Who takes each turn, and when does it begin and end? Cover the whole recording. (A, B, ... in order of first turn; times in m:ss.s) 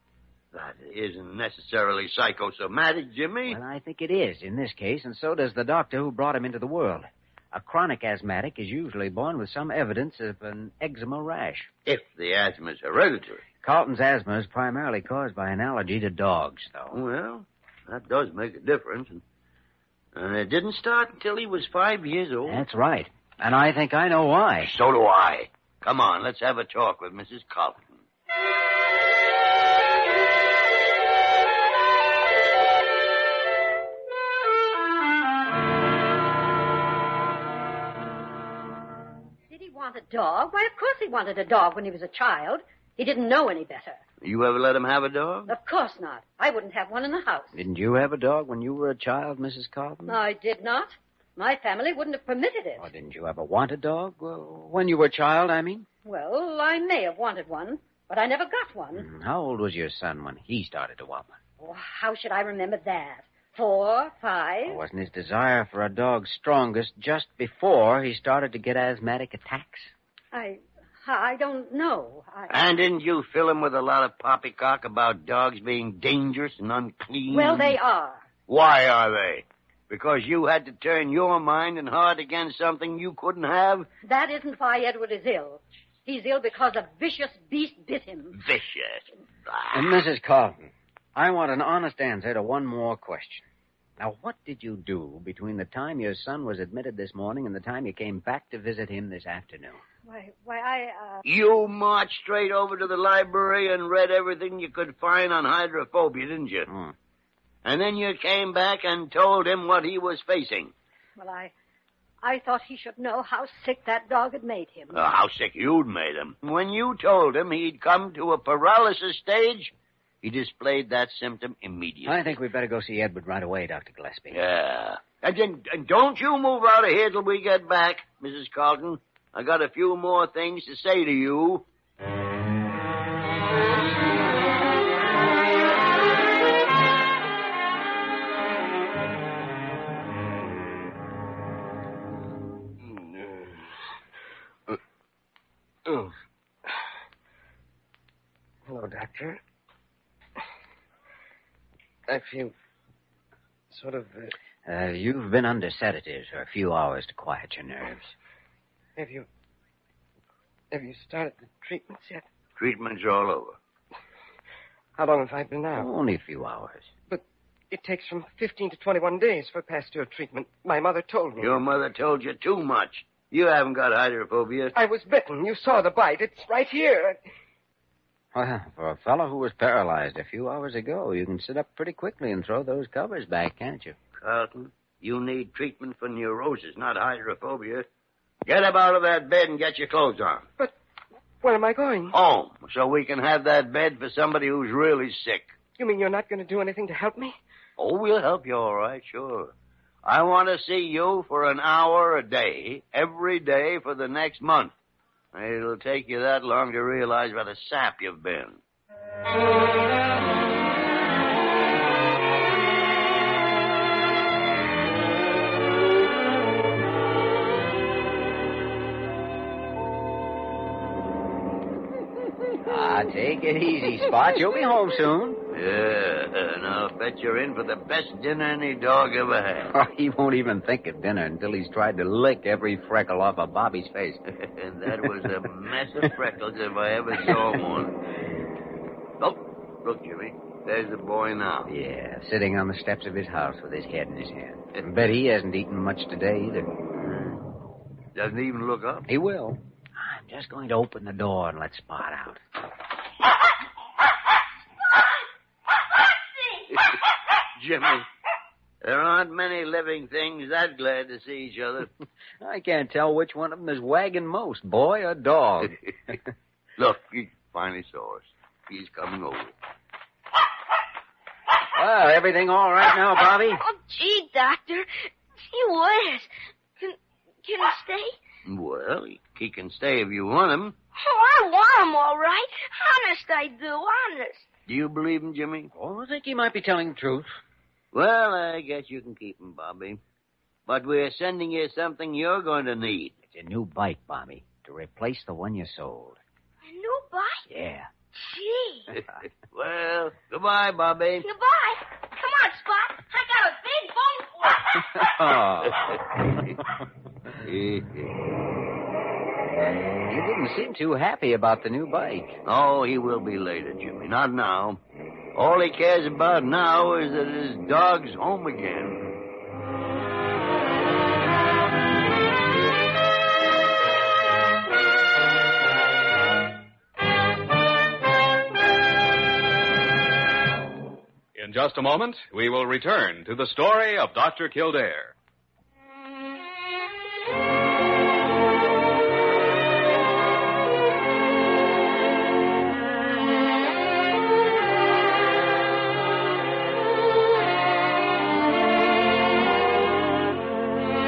0:00.5-0:03.6 A
0:03.5-0:11.7 B
0:11.9-0:13.4 A
0:13.6-0:17.0 B
0:16.9-0:19.2 A
0:20.2-0:22.6 A
0:22.5-0:24.7 B
0:24.6-0:28.0 A
0:39.5-0:44.0 C
0:44.2-0:45.5 A
0:45.5-0:47.6 C
0:47.5-0:50.2 B
0:50.1-0:52.9 C
0:52.8-0:55.9 B
0:56.0-0:59.1 C
0:59.0-1:01.4 B
1:01.6-1:04.8 C
1:04.7-1:09.9 B
1:10.3-1:12.6 C
1:12.5-1:17.8 A
1:17.3-1:18.2 C
1:18.5-1:23.9 A
1:24.0-1:28.4 C
1:28.3-1:30.0 A
1:29.7-1:33.5 B
1:34.0-1:39.8 B
1:40.0-1:41.2 C
1:41.2-1:46.7 A
1:46.7-1:46.9 B
1:47.6-1:50.7 A
1:51.2-1:51.5 C
1:52.2-1:55.0 C
1:54.9-2:02.3 A
2:02.0-2:04.4 B
2:04.3-2:11.6 A
2:22.9-2:23.6 D
2:25.9-2:26.1 D
2:28.7-2:29.4 D
2:32.1-2:32.5 D
2:33.7-2:34.3 D
2:34.6-2:38.1 B
2:39.0-2:39.3 D
2:40.7-2:42.2 D
2:42.6-2:43.6 A
2:45.0-2:45.9 D
2:45.8-2:46.9 B
2:47.1-2:51.6 D
2:51.4-2:54.8 A
2:54.8-2:57.2 D
2:58.3-3:04.0 B
3:04.2-3:07.9 A
3:08.4-3:10.5 A
3:11.4-3:12.2 D
3:12.1-3:15.5 A
3:15.8-3:17.4 D
3:17.8-3:19.5 A
3:20.0-3:24.7 A
3:25.3-3:28.6 A
3:42.6-3:45.4 B
3:45.5-3:49.7 A
3:49.7-3:54.2 B
3:54.3-3:58.0 A
3:59.2-4:01.7 A
4:01.7-4:06.7 B
4:07.0-4:07.4 A
4:08.2-4:09.1 A
4:09.1-4:12.4 B
4:16.7-4:17.0 A
4:17.6-4:18.1 A
4:18.8-4:21.9 A
4:22.4-4:26.2 B
4:26.8-4:29.5 A
4:31.7-4:33.6 B
4:33.4-4:34.9 E
4:35.4-4:38.2 E
4:38.5-4:40.8 A
4:41.0-4:44.5 E
4:44.7-4:45.7 A
4:45.7-4:47.3 B
4:47.9-4:50.0 A
4:50.7-4:53.1 A
4:53.3-4:56.2 B
4:56.6-4:57.5 E
4:57.5-4:57.9 B
4:58.2-4:58.9 E
4:59.0-5:01.3 A
5:01.2-5:05.1 E
5:04.9-5:06.0 B
5:05.7-5:06.0 A
5:07.4-5:08.2 A
5:09.6-5:12.4 B
5:12.5-5:14.8 A
5:15.4-5:19.0 A
5:31.4-5:35.1 F